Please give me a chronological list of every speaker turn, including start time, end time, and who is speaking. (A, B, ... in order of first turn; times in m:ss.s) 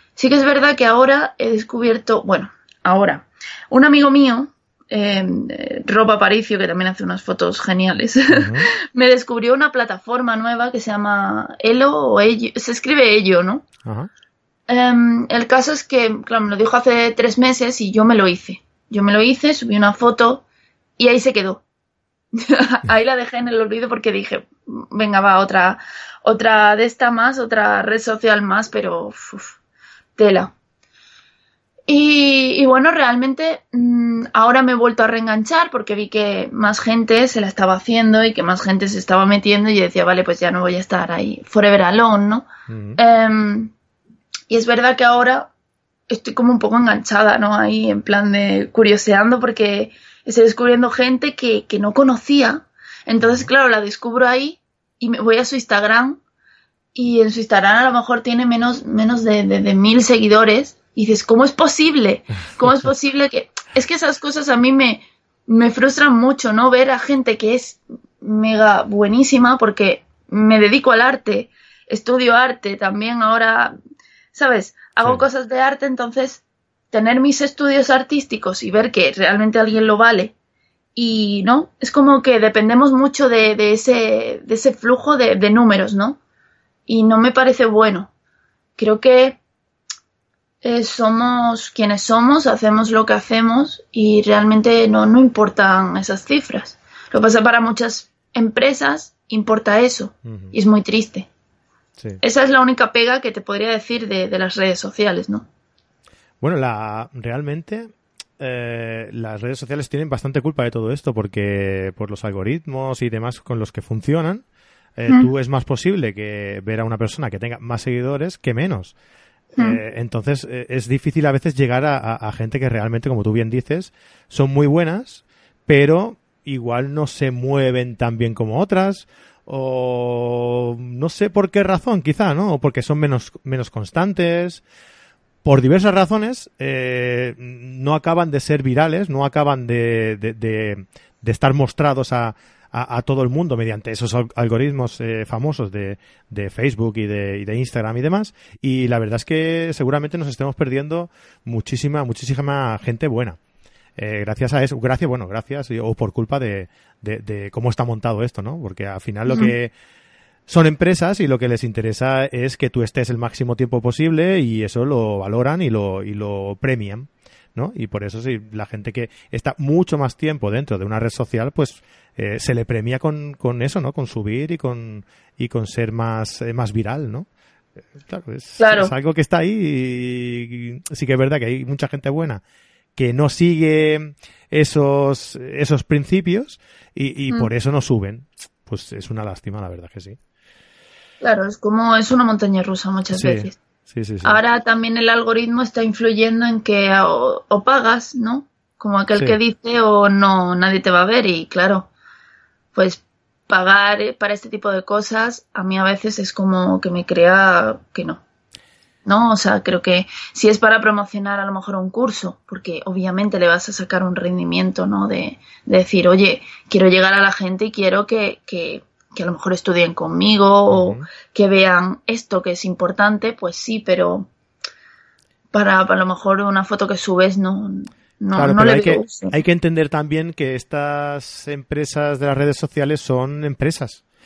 0:00.2-0:13.6 A
0:08.3-0:08.7 B
0:14.7-0:20.4 A
0:21.0-0:21.6 A
0:22.4-0:29.6 A
0:30.2-0:30.5 A
0:31.9-0:43.7 A
0:42.7-0:43.0 B
0:44.5-0:45.5 A
0:46.1-0:56.2 A
0:53.2-0:53.5 B
0:56.9-1:13.7 A
1:14.3-1:20.3 A
1:15.0-1:15.2 B
1:20.9-1:26.2 A
1:26.9-1:28.1 A
1:28.8-1:29.4 A
1:30.6-1:41.3 A
1:40.2-1:40.5 B
1:42.2-1:45.5 A
1:46.4-1:54.4 B
1:55.0-1:58.9 B
1:59.6-2:14.6 B
2:15.4-2:33.4 B
2:34.0-2:39.7 B
2:39.3-2:39.5 A
2:40.5-2:57.3 B
2:57.9-3:02.4 B
2:58.6-2:58.9 A
3:03.0-3:10.2 B
3:11.2-3:13.6 A
3:13.1-3:14.4 B
3:14.2-3:21.9 A
3:22.7-3:28.2 A
3:29.0-3:44.3 A
3:40.7-3:41.0 B
3:45.5-3:49.4 A
3:48.3-3:54.0 B